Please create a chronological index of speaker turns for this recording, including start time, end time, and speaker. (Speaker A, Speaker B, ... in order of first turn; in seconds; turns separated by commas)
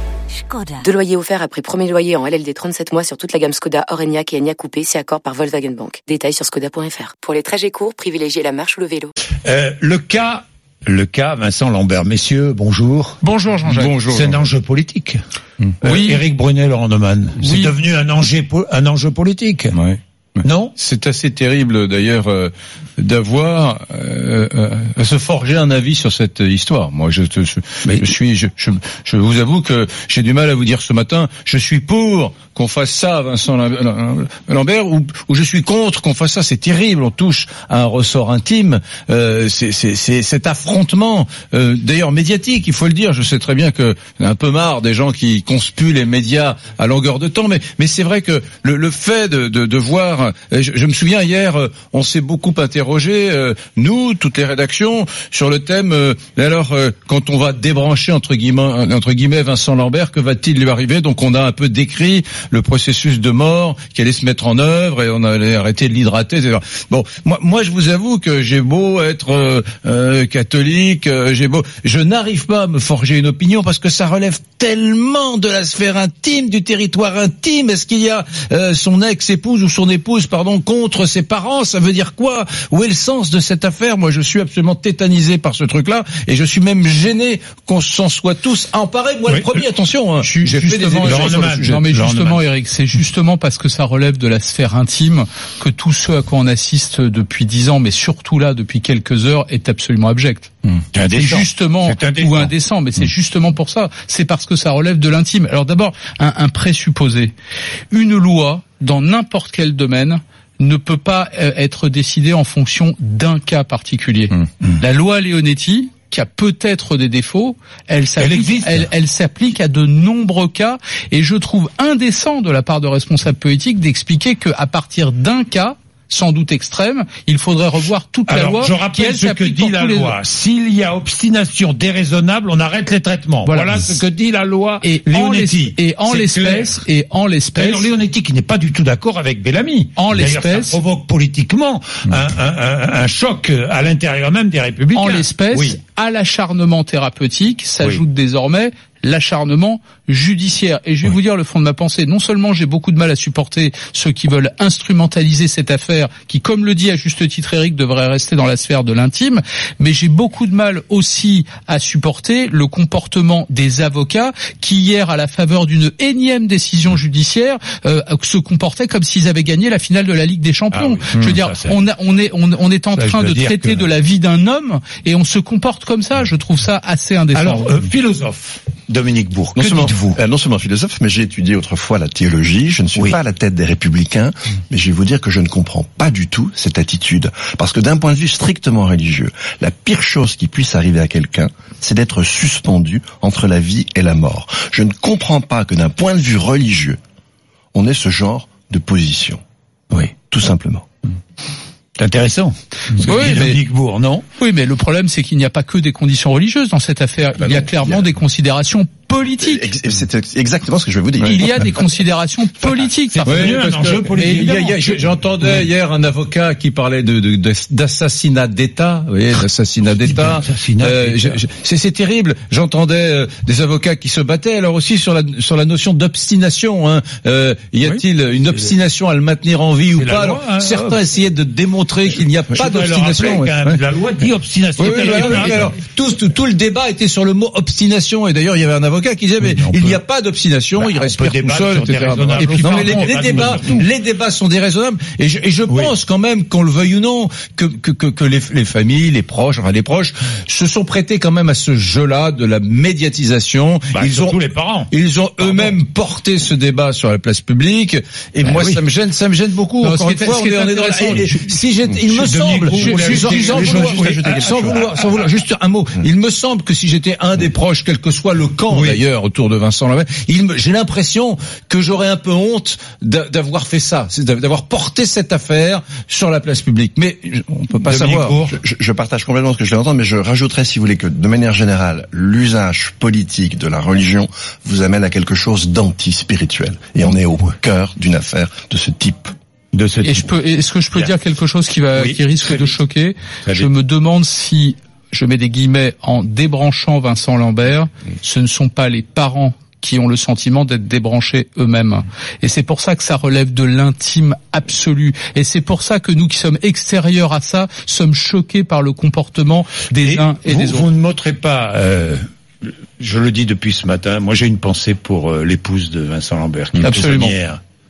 Speaker A: 0.8-9.1, Speaker B: 9.4-15.2, Speaker C: 13.3-13.7, Speaker D: 13.7-14.4, Speaker B: 15.8-19.8, Speaker C: 15.8-16.2, Speaker C: 17.4-17.7, Speaker D: 19.7-20.0, Speaker B: 20.4-20.7, Speaker D: 20.8-91.8, Speaker C: 90.2-100.5, Speaker B: 90.5-92.4, Speaker B: 100.9-102.5, Speaker C: 101.1-107.3, Speaker C: 107.9-130.2, Speaker B: 118.2-118.9, Speaker B: 128.3-136.8, Speaker C: 133.5-133.9, Speaker C: 134.8-137.9, Speaker B: 137.6-145.8, Speaker C: 140.0-140.8, Speaker C: 144.9-177.7, Speaker B: 170.7-171.8, Speaker B: 172.9-173.8, Speaker B: 177.3-180.2, Speaker E: 179.6-197.0, Speaker E: 197.7-199.4, Speaker E: 200.0-200.9, Speaker B: 202.0-204.2, Speaker C: 203.0-203.6, Speaker C: 204.4-209.7, Speaker E: 209.4-211.7, Speaker C: 211.2-214.5, Speaker B: 213.1-215.1, Speaker D: 213.2-233.8, Speaker B: 219.9-221.4, Speaker B: 229.9-231.0, Speaker B: 232.5-235.8, Speaker D: 234.8-278.4, Speaker B: 239.4-240.0, Speaker B: 240.8-243.9, Speaker C: 242.4-243.8, Speaker B: 253.9-255.8, Speaker B: 258.5-258.8, Speaker C: 259.8-261.3, Speaker B: 262.0-264.9, Speaker E: 262.8-264.8, Speaker B: 268.7-269.0, Speaker B: 277.9-278.6, Speaker E: 278.4-289.3, Speaker B: 289.7-290.3, Speaker C: 290.0-310.9, Speaker B: 291.9-292.8, Speaker B: 310.0-312.2, Speaker B: 313.0-317.6, Speaker C: 316.8-317.4